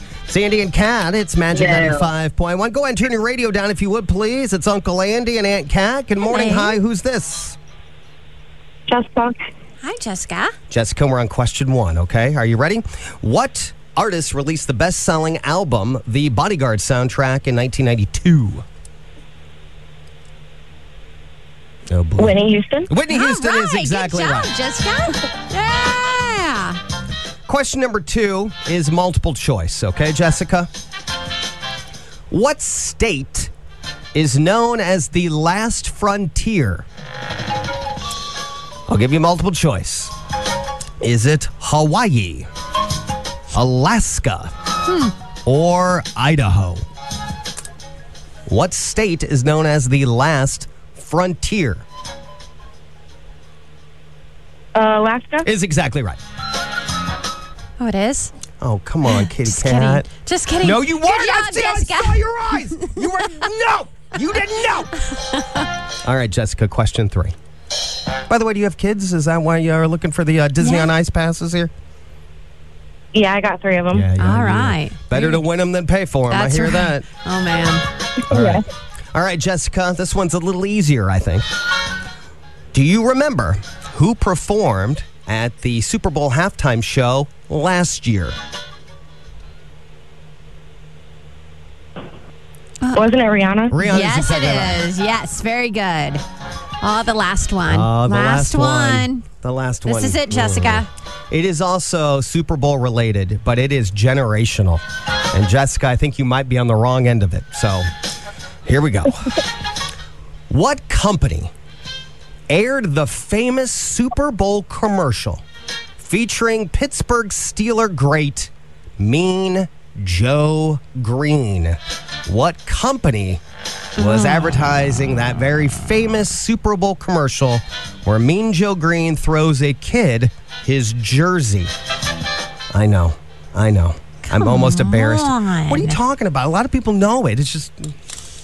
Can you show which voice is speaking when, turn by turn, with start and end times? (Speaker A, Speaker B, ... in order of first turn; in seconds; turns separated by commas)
Speaker A: 0.3-7.6, Speaker B: 1.5-2.0, Speaker C: 6.2-6.8, Speaker B: 8.9-9.4, Speaker C: 9.8-10.5, Speaker A: 10.7-18.6, Speaker A: 21.9-24.5, Speaker B: 22.2-22.9, Speaker C: 23.1-26.8, Speaker A: 27.5-30.7, Speaker A: 32.3-33.5, Speaker A: 34.1-36.8, Speaker A: 38.9-40.1, Speaker A: 41.0-42.5, Speaker A: 43.5-44.5, Speaker A: 45.5-46.8, Speaker A: 48.5-51.8, Speaker B: 54.7-55.5, Speaker A: 55.4-56.2, Speaker C: 57.8-58.3, Speaker A: 58.6-60.0, Speaker C: 59.0-63.4, Speaker A: 60.6-65.1, Speaker C: 65.2-65.7, Speaker A: 66.0-67.3, Speaker A: 68.3-71.7, Speaker C: 70.6-70.9, Speaker B: 73.1-74.1, Speaker A: 73.9-77.0, Speaker C: 74.1-75.4, Speaker C: 76.3-77.8, Speaker B: 78.3-78.6, Speaker A: 78.3-81.4, Speaker A: 82.7-88.3, Speaker C: 92.8-93.1, Speaker B: 92.9-93.7, Speaker A: 93.7-94.9, Speaker C: 93.8-96.2, Speaker C: 96.8-99.2, Speaker A: 97.7-107.9, Speaker C: 99.8-100.9, Speaker A: 108.7-109.4, Speaker A: 110.5-111.5, Speaker A: 112.5-115.4, Speaker A: 116.0-123.4, Speaker A: 124.0-131.7, Speaker C: 124.0-124.7, Speaker A: 132.7-137.9, Speaker C: 134.3-136.0